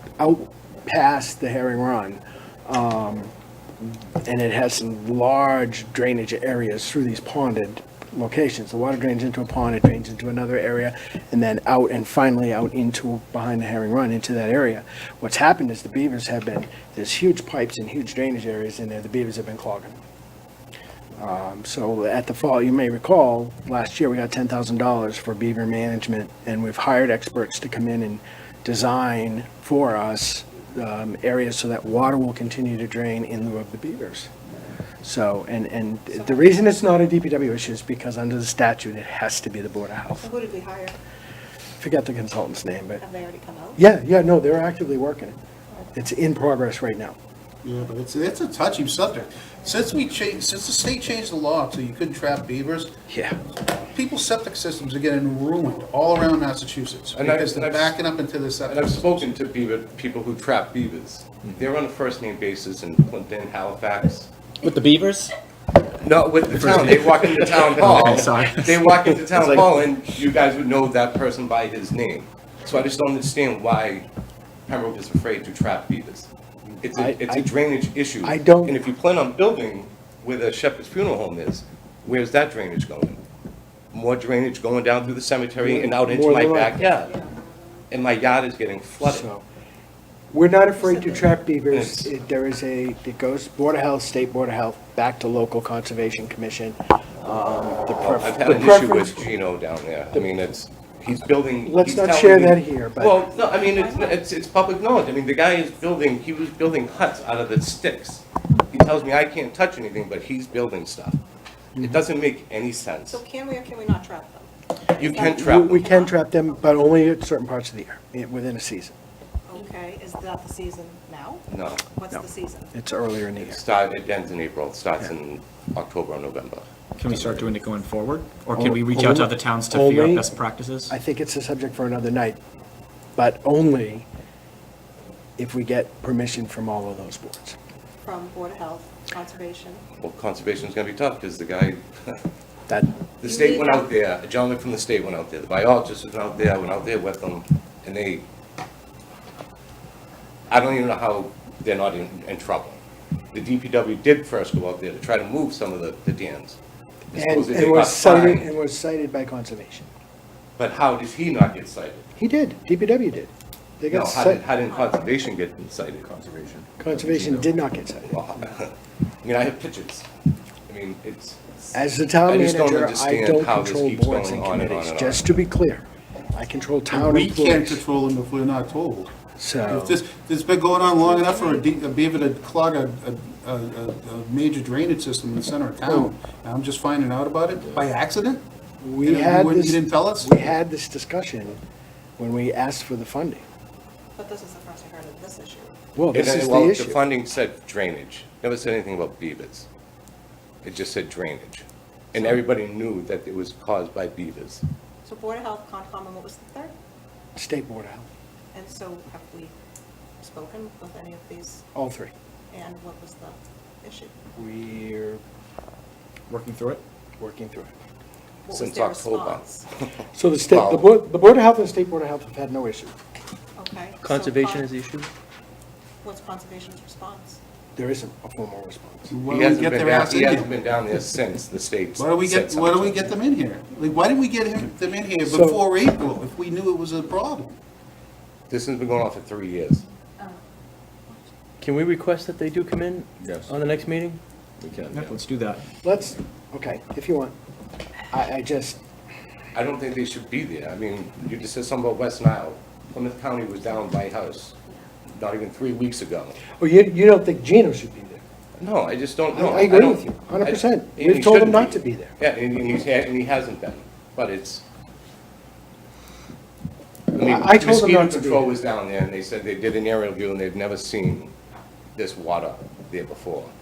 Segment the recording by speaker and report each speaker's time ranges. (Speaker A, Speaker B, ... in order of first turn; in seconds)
Speaker A: 0.2-3.3, 3.8-20.0, 21.2-34.3, 35.0-40.3, 41.8-43.0, 43.8-45.4, 45.9-47.2, 53.1-53.4, 76.9-77.5, 78.2-78.8, 85.6-86.9, 89.0-89.4, 90.3-99.3, 101.6-103.3, 111.8-112.0, 115.1-118.9, 122.1-123.6, 128.5-130.3, 130.9-132.4, 133.1-134.1, 135.4-137.6, 157.1-159.9, 162.2-164.4, 166.8-168.3, 171.7-177.8, 179.4-179.9, 185.8-186.1, 188.8-191.6, 192.2-193.4, 195.9-197.0, 207.3-208.1, 211.7-212.1, 214.3-215.2, 217.2-217.7, 220.1-222.9, 227.8-229.1, 235.2-235.6, 245.8-247.3, 248.1-248.8, 256.6-258.2, 259.3-262.1, 267.1-268.5
Speaker B: 36.1-36.9, 40.2-40.9, 43.0-43.8, 86.9-87.3, 90.8-91.3, 103.4-104.3, 113.1-116.8, 119.5-122.7, 138.0-139.8, 143.2-143.9, 164.6-165.3, 180.9-181.6, 194.2-195.7, 205.0-206.7, 208.5-209.5, 210.2-211.6, 212.5-214.1, 218.4-219.7, 223.6-224.8, 226.0-227.4
Speaker C: 47.6-52.9, 53.9-59.3, 176.9-179.1, 179.7-188.4, 189.0-190.6, 229.1-230.6, 231.9-237.6
Speaker D: 57.1-58.0, 58.7-64.3, 66.0-74.0, 74.7-76.3, 76.8-83.2, 83.9-87.1, 87.9-89.3, 91.7-92.1, 98.0-111.2, 111.8-113.2, 115.0-115.9, 121.5-121.8, 123.4-126.6, 140.0-142.2, 143.2-148.2, 150.5-152.8, 153.3-156.6, 157.1-158.5, 160.6-162.1, 163.9-166.2, 168.0-170.1, 170.7-171.6, 172.2-175.4, 196.1-199.7, 200.6-204.6, 218.5-219.4, 220.4-220.9, 229.3-233.2, 238.5-239.8, 249.5-254.6, 255.1-256.4, 258.6-264.6, 267.1-271.3, 271.9-273.5
Speaker E: 64.6-65.3, 66.5-69.7, 127.0-130.9, 166.1-167.4, 216.3-216.8, 244.9-245.6
Speaker F: 224.0-225.1, 241.6-244.2